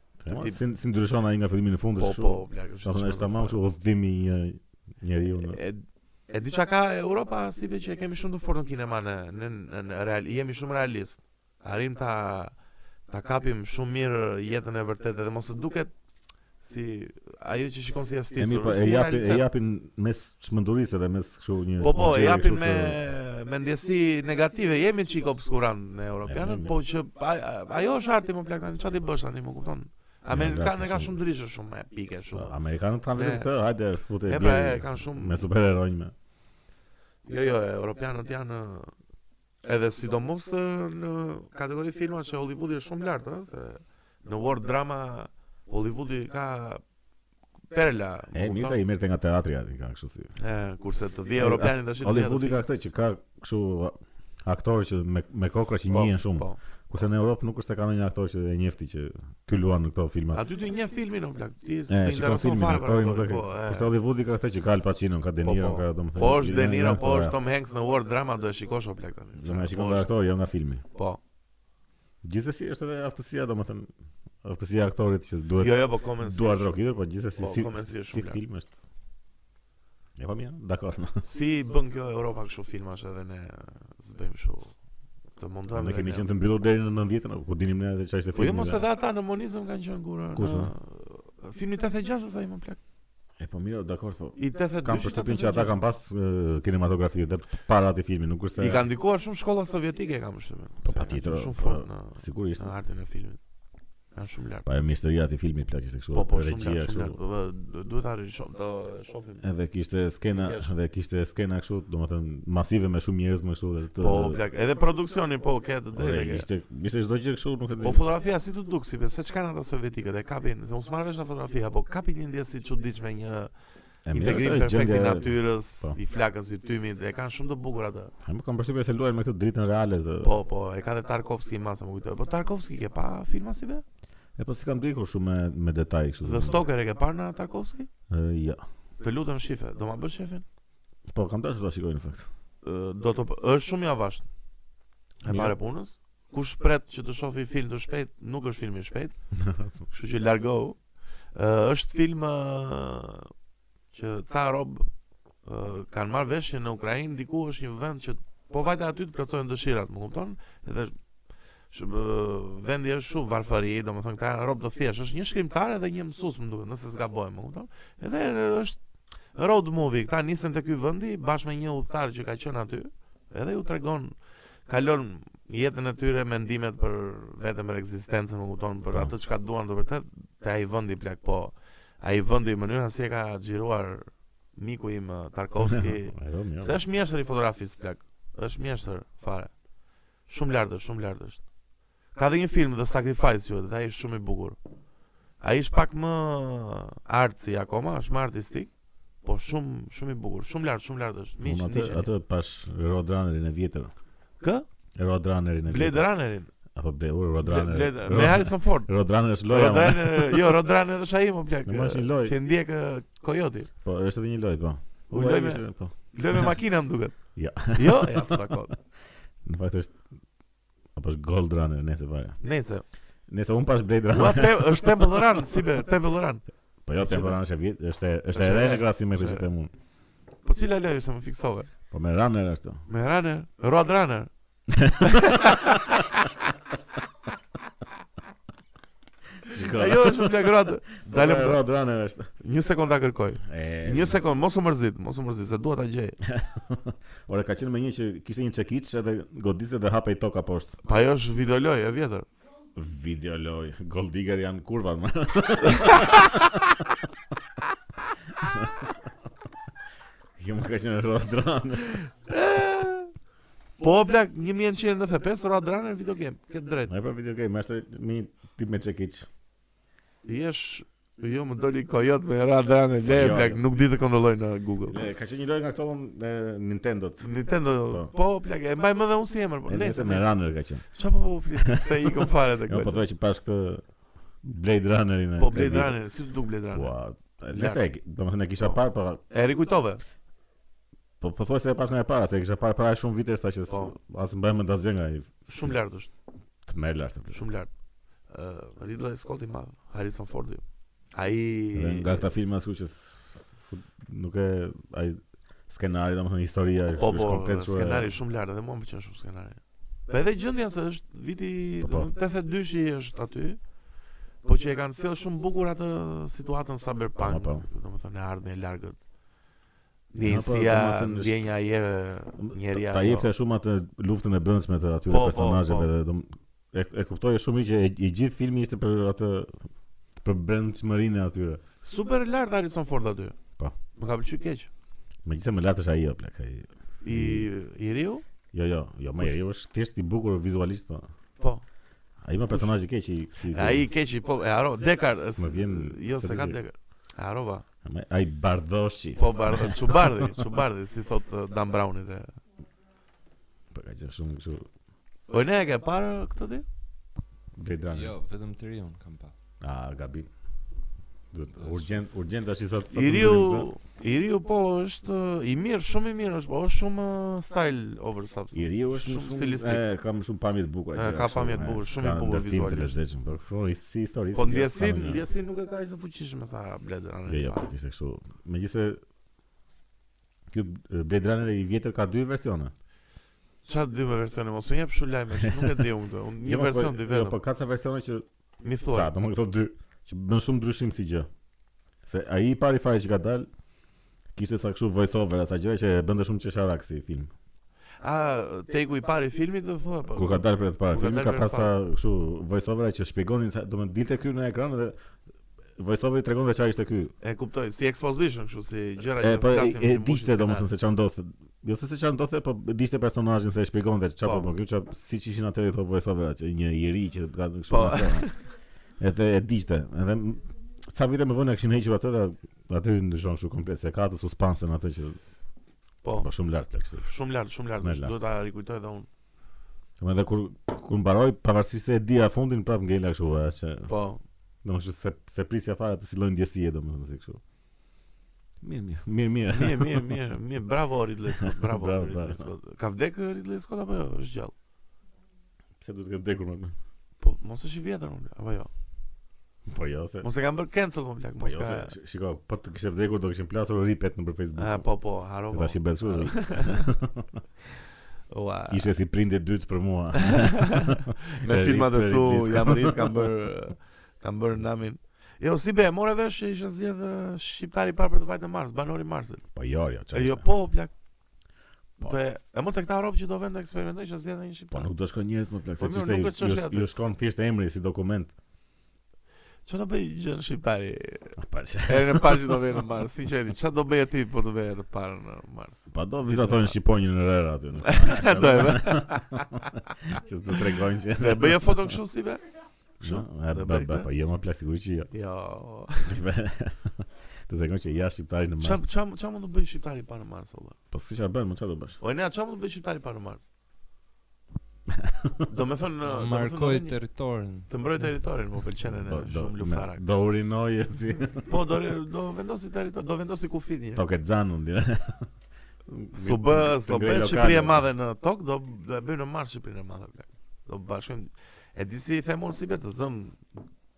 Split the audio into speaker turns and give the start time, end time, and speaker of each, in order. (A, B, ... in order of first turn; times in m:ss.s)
0:00.2-0:05.6 A
0:00.3-0:00.6 B
0:02.0-0:03.6 B
0:05.4-0:12.6 B
0:13.1-0:15.9 B
0:16.6-0:19.4 B
0:18.4-0:23.0 A
0:21.8-0:32.6 B
0:26.2-0:26.7 A
0:30.3-0:31.2 A
0:32.3-0:36.1 A
0:33.1-0:33.5 B
0:34.3-0:35.4 B
0:37.2-0:38.9 B
0:39.6-0:46.8 B
0:47.7-0:48.8 B
0:48.3-0:50.3 A
0:50.4-0:52.6 B
0:51.3-1:00.4 A
0:55.9-0:56.6 B
1:00.3-1:03.9 B
1:01.9-1:07.4 A
1:05.4-1:10.1 B
1:09.4-1:10.8 A
1:10.9-1:11.2 B
1:12.2-1:13.9 A
1:14.4-1:18.7 A
1:15.6-1:16.8 B
1:17.4-1:18.4 B
1:20.2-1:21.2 A
1:21.2-1:24.7 B
1:25.4-1:26.3 B
1:25.7-1:28.8 A
1:28.3-1:32.8 B
1:30.3-1:30.7 A
1:33.4-1:38.8 A
1:34.4-1:35.8 B
1:38.6-1:43.4 B
1:40.8-1:42.7 A
1:44.1-1:44.6 B
1:44.6-1:47.2 A
1:46.1-1:49.4 B
1:49.4-1:54.4 A
1:50.3-1:50.7 B
1:54.0-1:56.5 B
1:55.9-1:58.0 A
1:57.8-2:03.5 B
2:04.0-2:06.0 A
2:04.1-2:08.1 B
2:08.2-2:10.3 A
2:10.2-2:13.8 B
2:14.4-2:16.6 A
2:16.2-2:17.9 B
2:18.1-2:18.6 A
2:19.0-2:20.4 B
2:21.1-2:22.3 A
2:22.6-2:24.3 B
2:25.2-2:29.2 B
2:25.2-2:25.6 A
2:29.4-2:29.7 A
2:29.9-2:30.8 B
2:31.3-2:33.3 B
2:33.9-2:34.9 B
2:35.4-2:40.9 B
2:41.7-2:48.8 B
2:49.3-2:54.2 B
2:54.7-3:09.5 B
3:05.7-3:06.8 A
3:10.2-3:11.4 B
3:12.1-3:14.6 B
3:15.4-3:18.7 B
3:19.2-3:22.1 B
3:21.4-3:23.9 A
3:24.4-3:24.6 B
3:25.0-3:30.6 A
3:25.6-3:26.5 B
3:27.4-3:28.9 B
3:29.4-3:33.7 B
3:31.6-3:32.3 A
3:33.8-3:36.6 A
3:35.1-3:38.7 B
3:37.3-3:38.3 A
3:39.4-3:40.0 A
3:41.0-3:42.4 A
3:42.4-3:42.8 B
3:43.3-3:45.2 A
3:44.1-3:46.4 B
3:46.8-3:49.7 A
3:47.0-3:47.4 B
3:48.3-3:49.4 B
3:50.4-3:51.7 B
3:51.9-3:52.8 A
3:52.9-3:54.3 B
3:54.7-3:56.0 A
3:55.0-3:55.8 B
3:59.5-4:02.3 A
3:59.6-4:01.6 B
4:02.4-4:06.2 B
4:03.4-4:04.2 A
4:06.2-4:10.8 A
4:10.8-4:12.2 B
4:12.7-4:17.0 A
4:15.8-4:16.1 B
4:18.4-4:18.9 A
4:20.4-4:22.0 A
4:22.0-4:23.1 B
4:23.8-4:26.9 B
4:26.9-4:29.3 A
4:30.2-4:35.0 B
4:33.0-4:33.6 A
4:34.9-4:37.3 A
4:37.2-4:43.0 B
4:39.7-4:40.8 A
4:41.7-4:42.1 A
4:42.7-4:43.8 A
4:44.4-4:46.0 A
4:45.4-4:46.9 B
4:46.7-4:49.2 A
4:47.5-4:47.8 B
4:49.3-4:50.0 B
4:51.2-4:55.7 A
4:53.7-4:53.9 B
4:55.5-4:56.1 B
4:56.6-4:57.4 A
4:57.3-4:57.7 B
4:58.3-5:02.3 B
5:01.7-5:08.1 A
5:06.9-5:13.6 B
5:11.8-5:12.1 A
5:14.4-5:19.0 B
5:17.2-5:17.7 A
5:20.1-5:23.3 B
5:20.2-5:21.4 A
5:22.4-5:29.7 A
5:25.1-5:25.9 B
5:30.2-5:31.6 A
5:31.8-5:33.4 B
5:33.9-5:34.7 B
5:35.2-5:37.5 A
5:37.0-5:38.2 B
5:38.5-5:41.1 A
5:41.4-5:41.6 B
5:42.2-5:43.9 A
5:43.5-5:47.6 B
5:45.3-5:46.6 A
5:47.8-5:50.3 A
5:49.2-5:52.4 B
5:53.7-5:54.7 A
5:55.3-5:56.6 B
5:57.6-5:58.1 A
5:57.9-5:59.3 C
5:59.6-6:00.3 A
6:01.3-6:03.7 A
6:01.6-6:01.9 C
6:02.9-6:09.8 B
6:08.5-6:15.2 A
6:10.9-6:13.0 B
6:14.3-6:17.6 B
6:17.3-6:19.0 A
6:20.5-6:22.7 A
6:23.6-6:27.4 B
6:25.5-6:25.8 A
6:26.4-6:28.2 A
6:28.6-6:29.1 B
6:28.9-6:31.3 A
6:32.0-6:33.5 A
6:34.3-6:37.3 A
6:38.0-6:41.7 B
6:40.1-6:45.0 A
6:45.8-6:47.1 A
6:47.2-6:50.7 B
6:49.2-6:58.3 A
6:54.2-6:54.5 B
6:57.7-6:58.5 B
6:59.0-7:05.2 A
7:06.0-7:06.3 B
7:06.2-7:07.1 A
7:07.0-7:09.1 B
7:07.8-7:08.2 A
7:10.0-7:13.9 A
7:13.9-7:14.2 B
7:14.6-7:17.4 A
7:18.6-7:20.1 A
7:19.5-7:24.5 B
7:21.4-7:22.5 A
7:25.8-7:26.7 A
7:27.2-7:28.7 B
7:29.6-7:30.2 A
7:30.2-7:31.9 B
7:31.4-7:34.9 A
7:34.6-7:36.9 B
7:35.5-7:37.4 A
7:38.3-7:38.9 B
7:38.7-7:43.2 A
7:40.2-7:49.4 B
7:49.5-7:50.5 A
7:50.1-7:50.9 B
7:52.0-7:54.9 B
7:54.7-7:58.3 A
7:55.8-7:56.9 B
7:59.6-8:06.8 B
8:01.4-8:02.6 A
8:05.9-8:12.0 A
8:07.8-8:09.5 B
8:11.2-8:12.4 B
8:13.0-8:14.1 B
8:13.0-8:15.1 A
8:15.1-8:16.2 B
8:16.0-8:18.8 A
8:18.6-8:20.8 B
8:20.9-8:22.0 A
8:22.0-8:23.5 B
8:24.9-8:25.4 A
8:25.4-8:27.0 B
8:26.0-8:27.7 C
8:27.7-8:30.0 B
8:28.8-8:31.6 A
8:31.4-8:34.0 B
8:34.0-8:35.3 A
8:35.9-8:37.8 A
8:36.1-8:43.6 B